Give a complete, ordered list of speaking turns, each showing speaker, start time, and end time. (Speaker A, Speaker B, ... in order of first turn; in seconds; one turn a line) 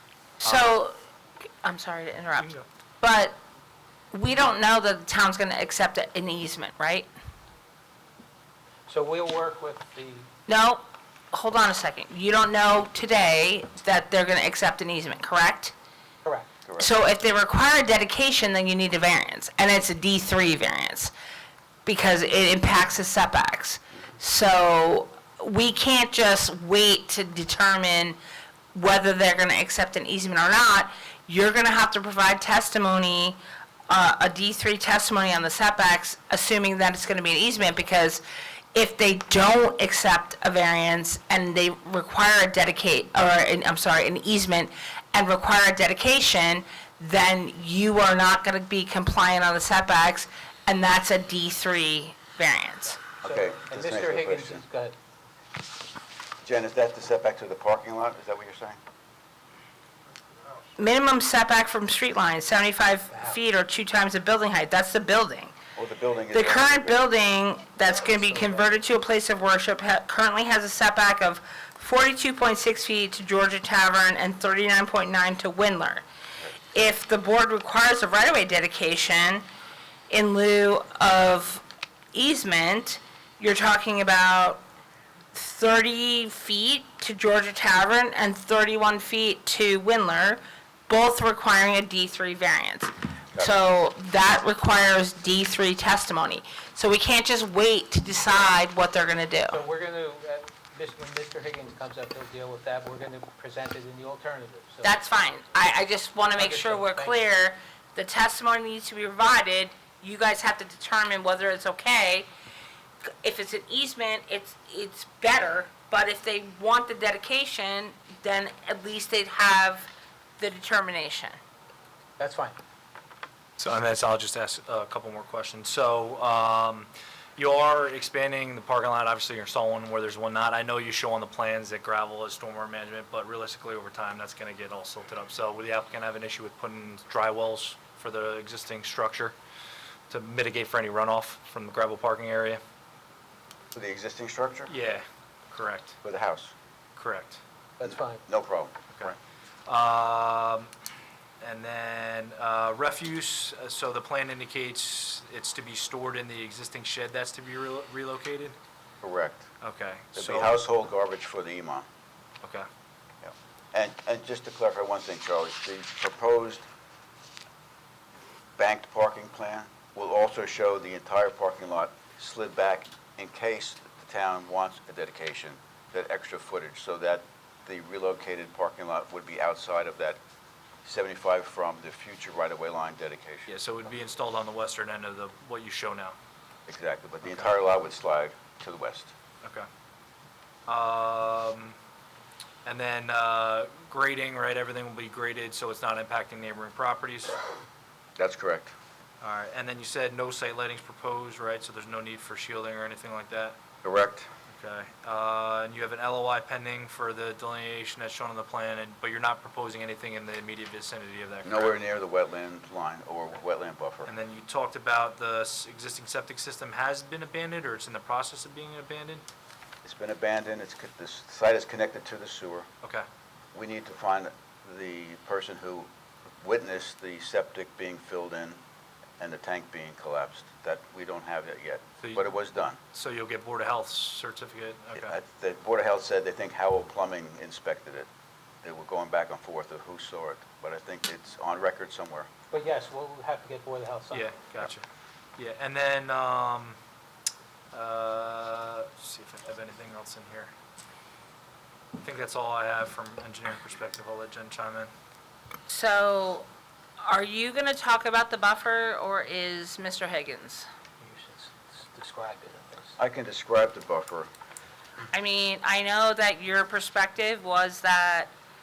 Speaker A: 0.4-1.0
Speaker B: 0.4-0.8
Speaker A: 1.6-3.4
Speaker B: 2.4-2.6
Speaker A: 4.1-7.1
Speaker C: 8.9-10.3
Speaker A: 10.5-15.7
Speaker C: 16.2-16.5
Speaker D: 16.7-16.9
Speaker A: 16.8-21.1
Speaker A: 21.9-28.2
Speaker A: 28.7-33.4
Speaker A: 33.9-38.2
Speaker A: 38.7-53.0
Speaker D: 53.2-54.6
Speaker C: 53.2-55.0
Speaker D: 56.4-58.8
Speaker A: 60.8-65.5
Speaker C: 63.1-63.4
Speaker D: 65.8-67.0
Speaker A: 66.3-76.0
Speaker C: 68.1-68.7
Speaker A: 76.7-79.5
Speaker A: 80.1-84.6
Speaker A: 85.3-99.6
Speaker C: 99.5-105.1
Speaker A: 104.8-112.3
Speaker C: 106.4-107.2
Speaker A: 113.2-121.4
Speaker C: 122.2-122.6
Speaker B: 123.6-139.3
Speaker B: 140.1-142.6
Speaker D: 143.8-144.7
Speaker B: 144.7-146.0
Speaker D: 146.0-146.5
Speaker B: 147.0-147.4
Speaker C: 147.8-148.2
Speaker D: 147.8-149.2
Speaker B: 149.7-150.7
Speaker B: 151.4-158.6
Speaker D: 159.0-159.5
Speaker B: 159.6-160.6
Speaker D: 160.2-161.9
Speaker D: 163.2-166.7
Speaker D: 168.6-180.2
Speaker D: 180.8-183.5
Speaker B: 183.5-186.2
Speaker D: 186.7-189.1
Speaker B: 187.2-187.5
Speaker B: 189.4-189.7
Speaker B: 190.7-191.8
Speaker B: 192.7-197.4
Speaker D: 198.2-198.7
Speaker B: 199.2-203.6
Speaker D: 203.8-204.3
Speaker B: 204.5-211.8
Speaker D: 211.4-214.1
Speaker B: 214.1-219.2
Speaker D: 219.8-222.7
Speaker D: 223.5-225.9
Speaker D: 226.4-228.6
Speaker D: 229.2-232.8
Speaker B: 232.0-232.3
Speaker B: 232.9-235.2
Speaker D: 234.9-238.1
Speaker D: 238.6-242.3
Speaker C: 242.5-244.3
Speaker B: 244.1-244.8
Speaker B: 245.4-246.8
Speaker B: 247.7-250.5
Speaker B: 252.0-254.9
Speaker A: 255.7-256.5
Speaker A: 257.0-260.7
Speaker C: 261.0-263.0
Speaker D: 263.0-264.3
Speaker A: 265.1-268.3